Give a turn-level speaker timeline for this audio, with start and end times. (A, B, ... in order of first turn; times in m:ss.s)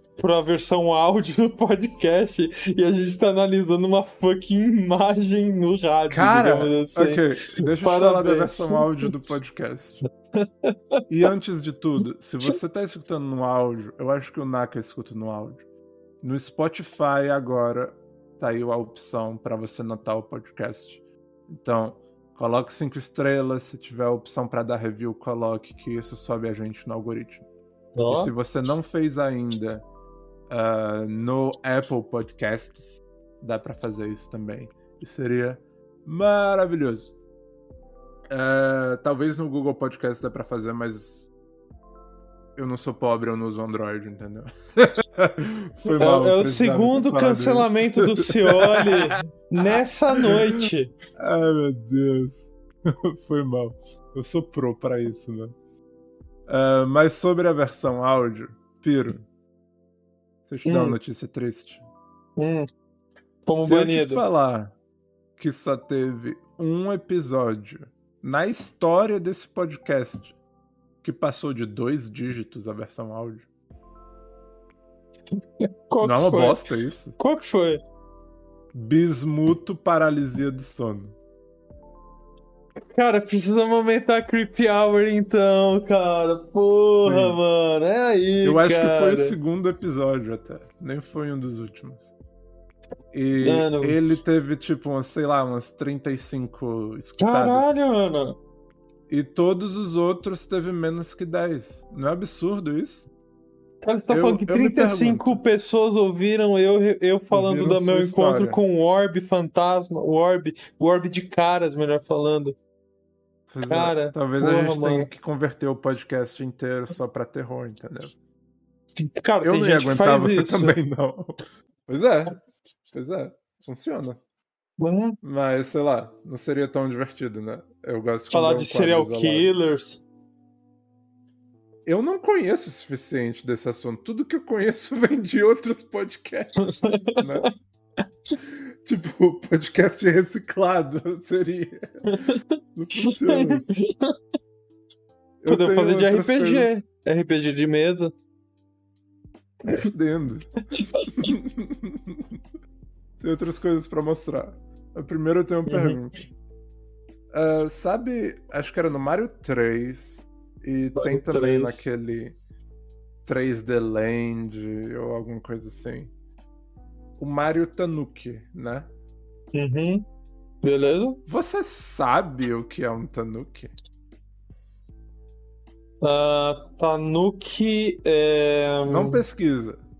0:00.2-0:09.1 A
0:06.1-0:10.0 B
0:10.3-0:11.0 A
0:11.1-0:15.6 B
0:16.2-0:27.4 B
0:28.0-0:28.3 A
0:28.1-0:29.8 B
0:30.5-0:37.1 B
0:38.3-0:41.3 B
0:42.6-0:50.6 B
0:45.9-0:50.9 A
0:51.2-0:55.5 B
0:56.5-0:59.2 B
1:00.5-1:01.8 B
1:00.6-1:01.0 A
1:02.4-1:02.7 A
1:03.4-1:04.2 A
1:03.6-1:04.7 B
1:05.4-1:10.3 B
1:11.0-1:13.5 B
1:15.6-1:16.6 A
1:16.0-1:17.2 B
1:17.2-1:17.8 A
1:18.7-1:21.1 B
1:22.8-1:29.3 A
1:27.0-1:27.4 B
1:28.4-1:32.1 B
1:33.1-1:37.8 B
1:33.4-1:34.0 A
1:37.2-1:38.4 A
1:39.1-1:43.1 B
1:43.8-1:52.6 A
1:44.1-1:45.4 B
1:47.3-1:48.6 B
1:53.5-1:58.1 B
1:53.7-1:55.1 A
1:58.9-2:00.8 A
1:59.4-2:02.4 B
2:02.9-2:04.2 B
2:04.8-2:05.2 A
2:05.2-2:09.5 B
2:08.3-2:10.0 A
2:11.8-2:17.5 B
2:16.8-2:17.5 A
2:18.4-2:21.9 B
2:22.1-2:24.2 A
2:22.7-2:23.6 B
2:25.4-2:26.8 B
2:25.5-2:28.1 A
2:29.6-2:32.4 B
2:30.8-2:31.3 A
2:33.2-2:36.1 B
2:35.7-2:36.0 A
2:37.3-2:42.4 B
2:41.0-2:41.9 A
2:43.2-2:46.1 B
2:47.2-2:48.9 B
2:49.5-2:50.0 A
2:50.6-2:51.2 A
2:51.2-2:53.7 B
2:56.0-2:59.2 A
2:58.9-2:59.8 B